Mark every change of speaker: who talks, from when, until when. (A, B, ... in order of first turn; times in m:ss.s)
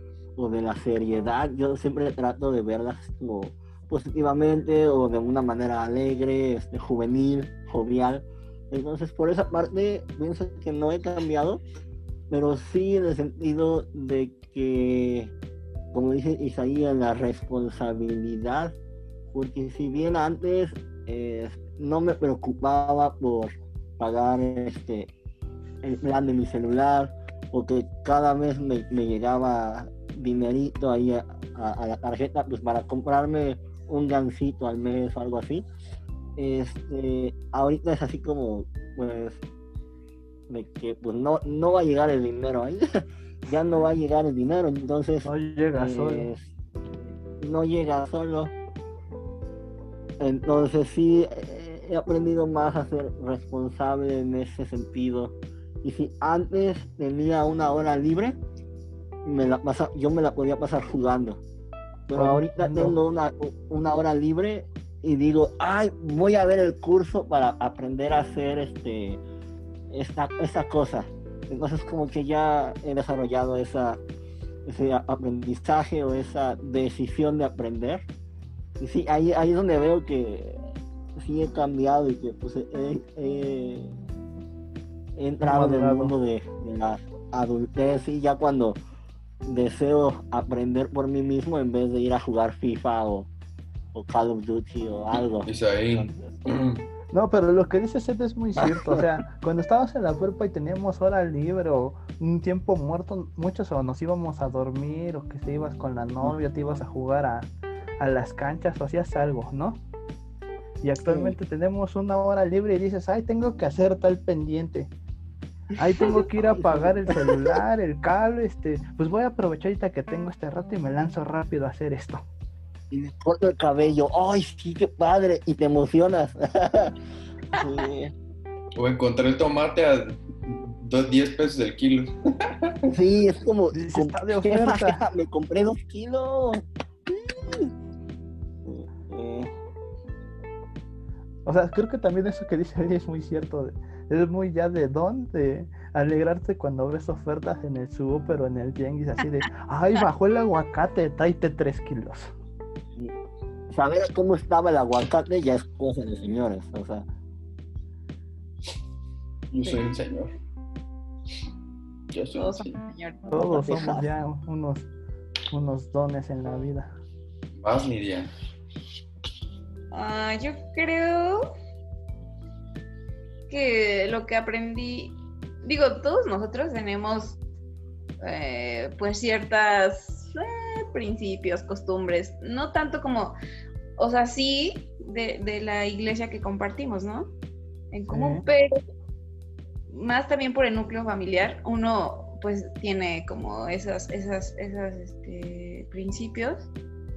0:00.4-0:11.6 A
0:12.3-0:15.3 A
0:15.9-0:18.7 A
0:19.3-0:25.1 A
0:25.8-0:35.6 A
0:36.4-0:39.4 A
0:40.5-0:46.5 A
0:45.2-0:46.3 B
0:47.4-0:48.5 A
0:50.2-0:58.4 A
0:59.2-1:01.4 A
1:02.1-1:09.2 A
1:02.2-1:03.0 B
1:09.9-1:14.0 A
1:14.6-1:18.1 A
1:18.8-1:20.6 A
1:21.2-1:24.0 A
1:25.2-1:28.8 A
1:25.4-1:26.1 B
1:29.4-1:33.3 A
1:33.9-1:36.4 A
1:35.4-1:36.8 C
1:37.1-1:49.8 B
1:50.8-1:54.9 B
1:51.0-1:51.4 A
1:55.7-1:57.6 A
1:55.8-2:02.2 B
2:02.9-2:07.0 A
2:07.5-2:08.1 A
2:08.8-2:12.9 C
2:12.9-2:17.7 A
2:13.7-2:15.0 B
2:18.6-2:19.5 A
2:21.4-2:32.3 B
2:33.7-2:37.0 A
2:39.5-2:40.3 C
2:42.1-2:42.8 C
2:42.3-2:43.2 D
2:43.3-2:44.1 A
2:43.3-2:44.9 B
2:45.5-2:46.9 B
2:47.6-2:48.3 C
2:49.9-2:51.4 D
2:53.5-2:57.4 D
2:58.2-3:03.4 D
3:04.0-3:07.3 D
3:07.9-3:08.7 D
3:08.1-3:08.4 B
3:09.9-3:16.7 D